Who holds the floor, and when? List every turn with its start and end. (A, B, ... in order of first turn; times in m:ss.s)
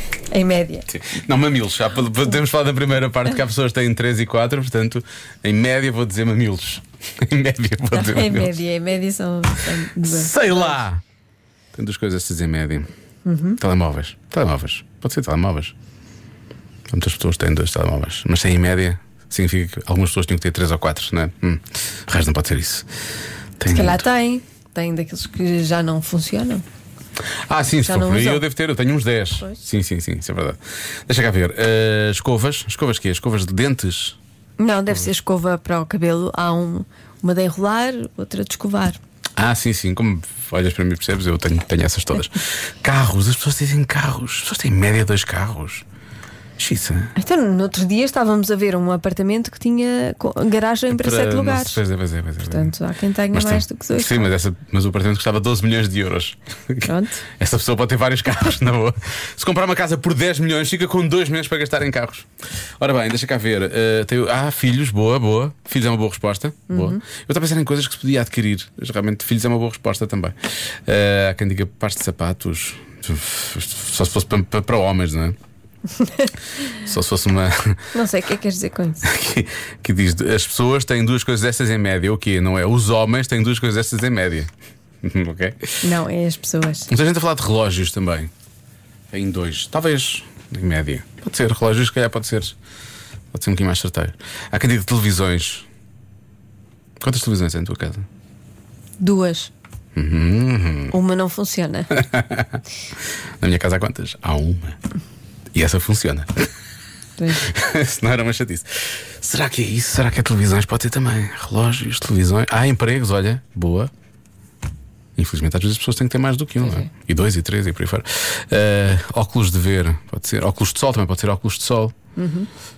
0:00.3-0:00.9 A
0:00.9-0:08.6 B
0:07.9-0:10.8 A
0:10.0-0:11.0 B
0:11.7-0:12.9 B
0:13.2-0:13.6 A
0:13.6-0:15.7 B
0:16.9-0:22.9 B
0:23.6-0:24.0 B
0:23.7-0:26.6 A
0:27.5-0:34.2 B
0:27.8-0:28.4 A
0:34.6-0:39.0 A
0:39.4-0:45.8 B
0:46.6-0:47.1 B
0:47.2-0:51.8 A
0:50.9-0:52.7 B
0:52.4-0:54.3 A
0:53.3-1:02.3 B
0:56.8-0:57.2 A
1:02.8-1:15.4 B
1:06.7-1:07.0 A
1:16.0-1:16.3 A
1:16.8-1:17.8 B
1:17.9-1:19.0 A
1:19.0-1:24.5 B
1:25.0-1:25.7 B
1:25.8-1:26.9 A
1:26.9-1:28.3 B
1:29.1-1:32.5 B
1:33.3-1:35.7 B
1:37.0-1:38.0 B
1:39.0-1:39.5 A
1:39.9-1:40.9 B
1:40.9-1:41.9 A
1:41.9-1:42.6 B
1:43.4-1:44.8 B
1:45.5-1:46.3 B
1:47.2-1:47.5 A
1:47.4-1:53.9 B
1:55.2-2:01.9 B
1:56.6-1:56.9 A
2:02.2-2:02.5 A